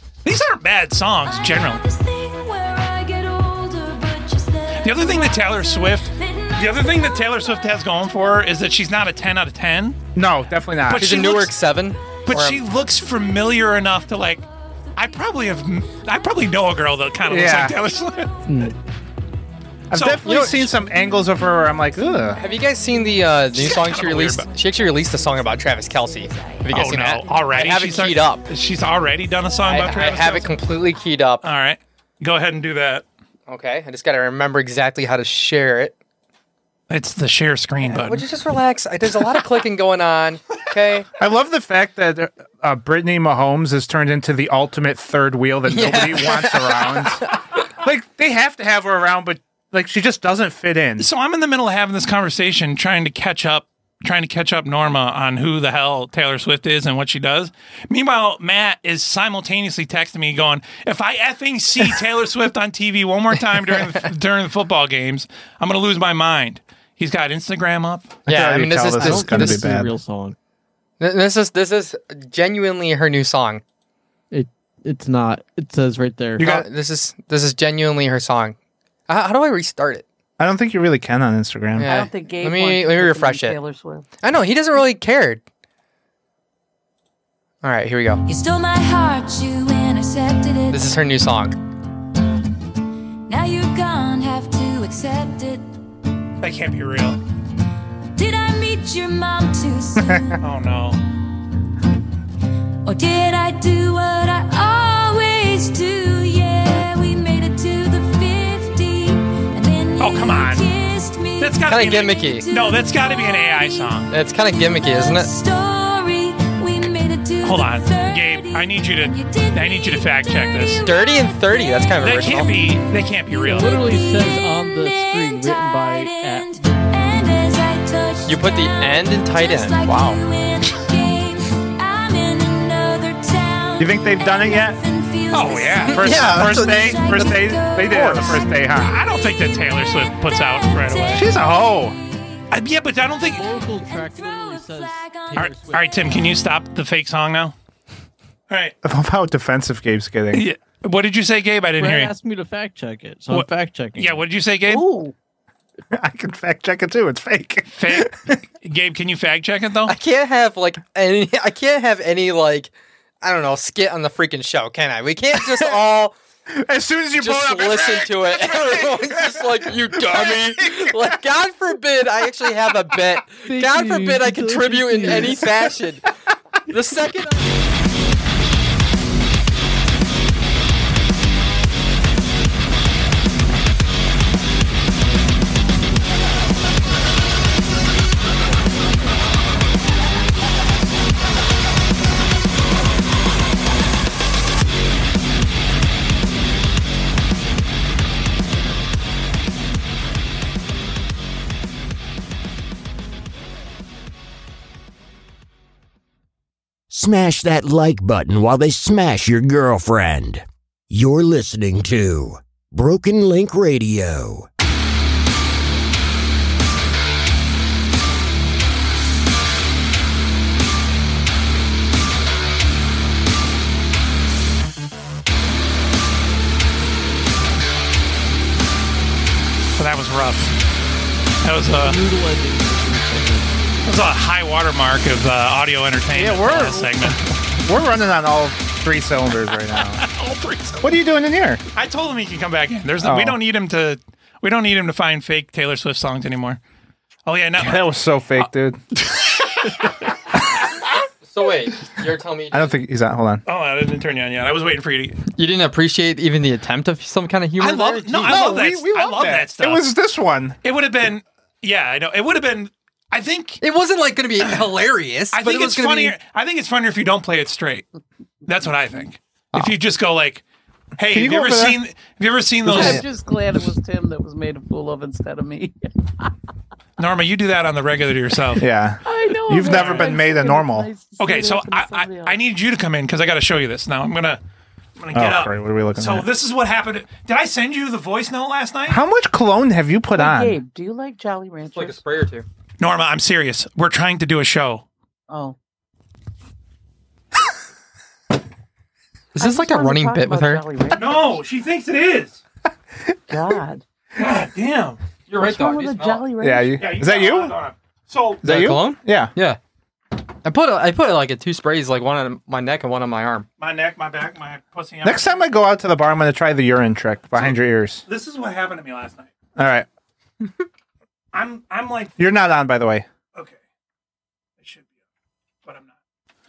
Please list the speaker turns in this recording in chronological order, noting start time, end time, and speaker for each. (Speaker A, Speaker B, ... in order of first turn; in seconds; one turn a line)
Speaker A: 0.2-1.9
Speaker B: 1.2-8.5
Speaker A: 4.8-10.0
Speaker C: 10.2-11.3
Speaker A: 10.9-11.6
Speaker D: 11.0-12.6
Speaker B: 12.1-18.8
Speaker A: 12.3-14.4
Speaker A: 15.0-18.3
Speaker C: 17.3-17.8
Speaker E: 18.5-18.8
Speaker C: 19.9-22.4
Speaker A: 19.9-20.7
Speaker D: 20.2-20.6
Speaker B: 20.6-23.3
Speaker D: 22.4-28.4
Speaker A: 23.4-24.5
Speaker B: 24.5-31.0
Speaker A: 26.7-30.5
Speaker D: 29.7-31.4
Speaker A: 31.4-33.0
Speaker D: 33.5-36.0
Speaker A: 36.9-38.3
Speaker D: 37.8-41.1
Speaker C: 41.2-47.2
Speaker D: 45.7-47.2
Speaker C: 47.8-51.1
Speaker A: 51.0-68.2
Speaker D: 68.3-69.7
Speaker C: 68.3-69.9
Speaker E: 69.0-70.3
Speaker D: 71.0-73.6
Speaker E: 74.3-76.5
Speaker C: 76.4-76.7
Speaker D: 76.4-78.6
Speaker D: 79.1-80.0
Speaker C: 80.4-81.9
Speaker D: 81.8-83.6
Speaker F: 81.9-84.1
Speaker D: 84.2-85.4
Speaker D: 87.6-88.2
Speaker B: 88.3-90.9
Speaker D: 90.7-91.6
Speaker B: 93.3-95.7
Speaker A: 96.4-97.2
Speaker B: 98.2-100.4
Speaker A: 100.4-101.0
Speaker B: 102.8-142.5
Speaker A: 110.0-110.7
Speaker A: 111.4-114.1
Speaker D: 111.7-112.5
Speaker D: 114.1-115.3
Speaker A: 117.4-120.9
Speaker D: 120.8-122.6
Speaker A: 122.0-123.8
Speaker E: 123.4-126.8
Speaker D: 128.3-130.2
Speaker C: 133.8-134.8
Speaker A: 135.3-136.2
Speaker D: 135.9-137.4
Speaker C: 135.9-138.9
Speaker A: 137.9-141.3
Speaker C: 141.1-142.0
Speaker A: 142.5-143.4
Speaker B: 143.3-146.2
Speaker E: 143.3-146.3
Speaker A: 145.3-147.6
Speaker A: 148.5-148.8
Speaker C: 148.8-150.5
Speaker A: 150.3-152.1
Speaker E: 151.8-154.2
Speaker A: 153.3-154.9
Speaker F: 154.7-155.1
Speaker C: 155.9-158.4
Speaker A: 157.8-159.9
Speaker D: 159.9-166.2
Speaker C: 165.3-166.0
Speaker C: 166.5-171.2
Speaker D: 167.2-176.1
Speaker E: 173.4-175.6
Speaker D: 176.7-177.5
Speaker G: 206.9-214.5
Speaker A: 229.8-230.5
Speaker A: 231.4-232.0
Speaker E: 231.7-233.5
Speaker A: 233.8-237.2
Speaker C: 236.1-240.0
Speaker A: 239.7-240.9
Speaker C: 240.8-241.6
Speaker A: 241.8-246.6
Speaker C: 243.0-243.4
Speaker A: 247.3-250.0
Speaker C: 247.6-248.8
Speaker D: 251.3-252.8
Speaker C: 252.5-253.4
Speaker A: 253.5-255.2
Speaker D: 255.3-258.5
Speaker A: 257.6-259.9
Speaker C: 258.2-260.6
Speaker A: 260.6-263.6
Speaker D: 263.6-266.1
Speaker A: 265.3-267.9
Speaker A: 268.5-270.4
Speaker A: 271.0-273.0
Speaker C: 271.0-271.8
Speaker C: 272.7-273.0
Speaker F: 272.7-275.8
Speaker A: 277.0-278.6
Speaker C: 278.6-280.9
Speaker F: 279.1-282.4
Speaker A: 279.6-280.2
Speaker A: 281.2-284.4
Speaker A: 285.0-289.0
Speaker C: 285.1-286.3
Speaker C: 288.9-290.6
Speaker F: 290.1-292.0
Speaker D: 291.7-292.5
Speaker A: 292.8-294.9
Speaker F: 295.3-295.6
Speaker D: 299.4-300.6
Speaker F: 299.4-301.4
Speaker A: 300.9-302.4
Speaker C: 303.0-303.4
Speaker F: 303.3-303.8
Speaker A: 304.2-305.0
Speaker D: 305.3-306.2
Speaker F: 305.4-306.8
Speaker C: 306.4-307.6
Speaker A: 306.8-308.4
Speaker C: 308.4-309.3
Speaker D: 308.4-309.6
Speaker D: 310.4-313.5
Speaker A: 313.6-315.4
Speaker C: 315.0-318.0
Speaker A: 317.3-319.3
Speaker C: 319.6-319.9
Speaker A: 321.3-322.2
Speaker C: 322.2-323.1
Speaker A: 324.6-324.9
Speaker A: 325.6-325.9